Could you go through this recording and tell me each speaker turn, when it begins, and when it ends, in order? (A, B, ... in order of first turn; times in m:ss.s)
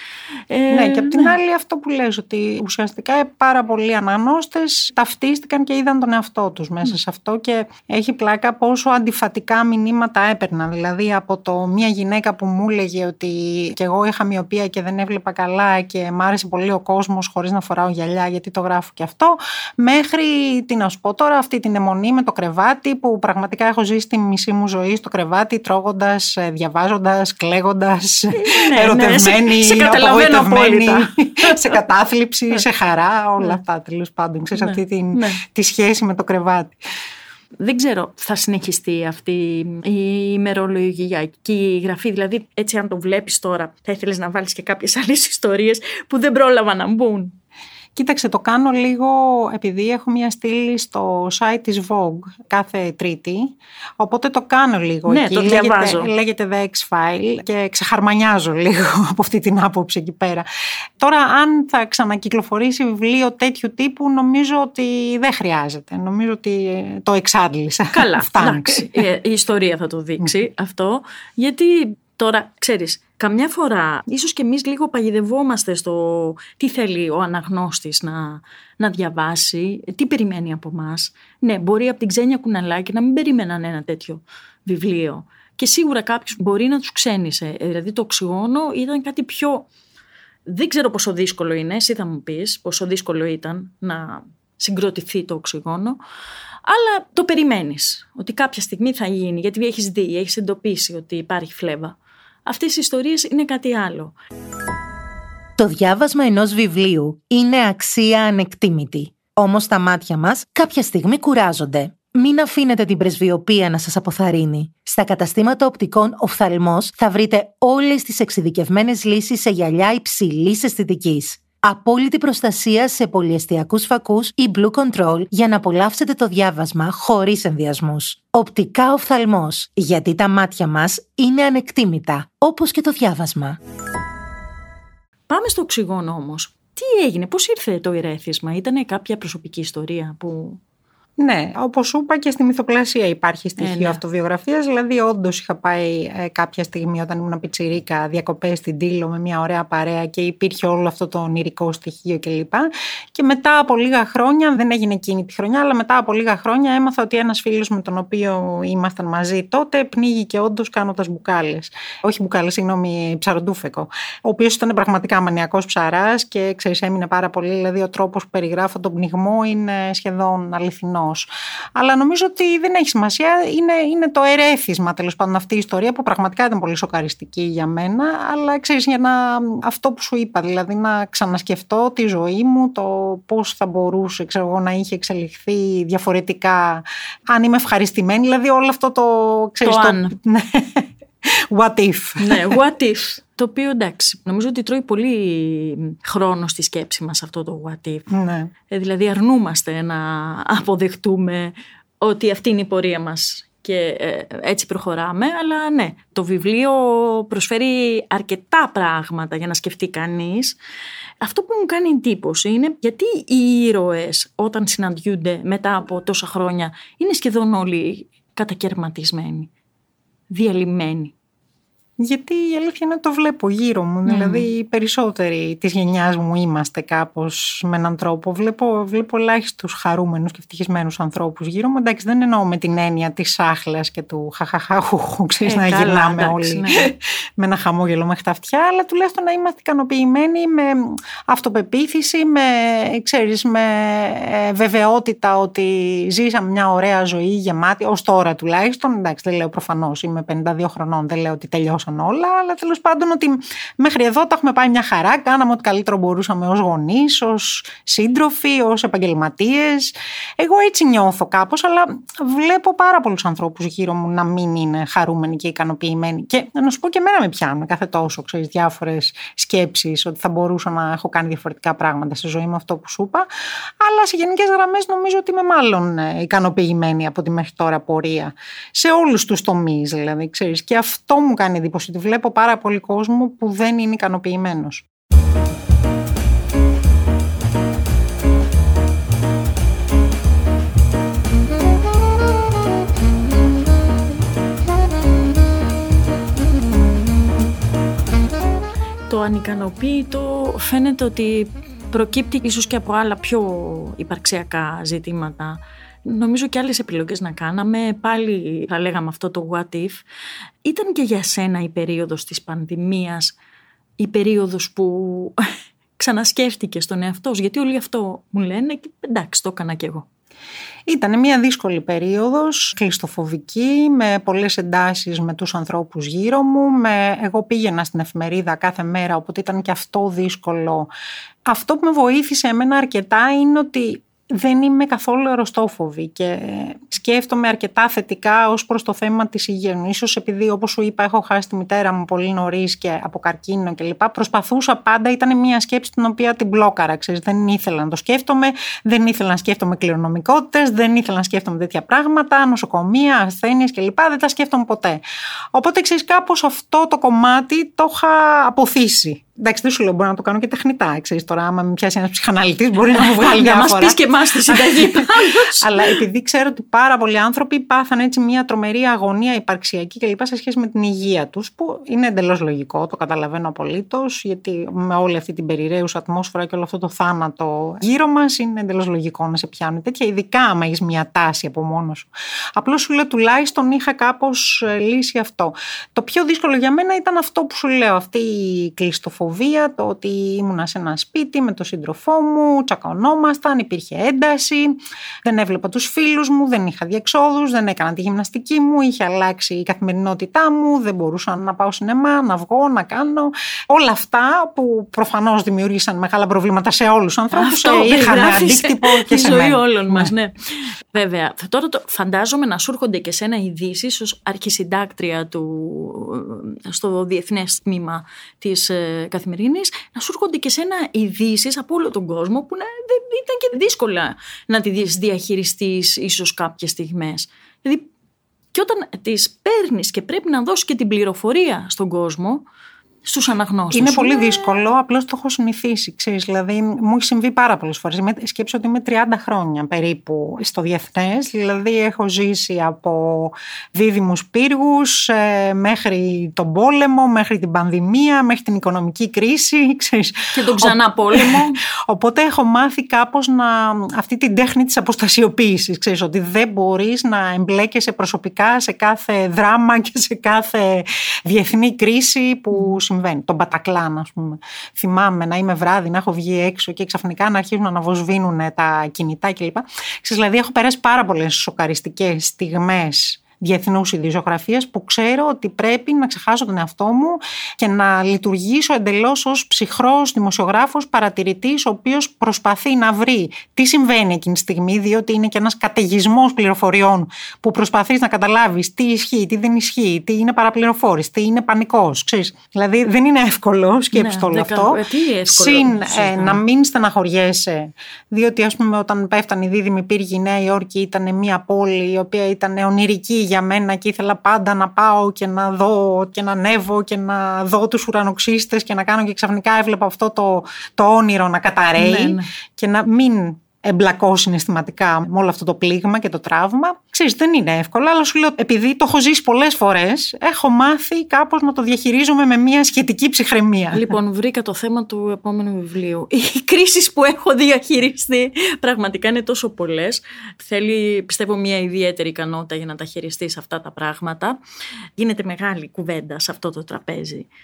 0:00.5-0:01.4 A
0:00.7-0:36.8 B
0:28.3-0:31.8 A
0:34.6-0:35.4 A
0:37.6-0:47.3 A
0:48.0-1:00.4 B
0:55.0-0:56.1 A
1:01.0-1:09.0 B
1:07.9-1:29.7 A
1:30.5-1:36.0 A
1:36.6-1:41.9 A
1:42.4-1:44.2 A
1:45.6-2:13.6 C
2:15.3-2:20.6 A
2:21.2-3:12.6 B
2:23.6-2:24.0 A
3:09.6-3:10.1 A
3:12.2-3:18.1 A
3:18.1-3:18.5 B
3:18.7-3:30.6 A
3:31.2-3:39.5 A
3:40.3-3:41.1 A
3:42.0-4:33.3 B
3:44.0-3:44.5 A
3:55.4-3:56.9 A
4:33.8-4:44.8 B
4:59.1-5:10.0 A
5:10.6-5:13.4 A
5:14.0-5:15.4 A
5:16.0-5:20.0 A
5:20.9-5:30.9 B
5:31.4-5:55.0 B
5:55.5-6:50.1 B
6:02.9-6:06.0 A
6:47.3-7:07.9 A
7:08.5-7:12.4 A
7:13.0-7:14.5 A
7:13.7-8:43.9 B
7:30.3-7:31.6 A
8:13.9-8:16.4 A
8:31.8-8:32.3 A
8:43.7-8:54.4 A
8:55.0-8:57.3 A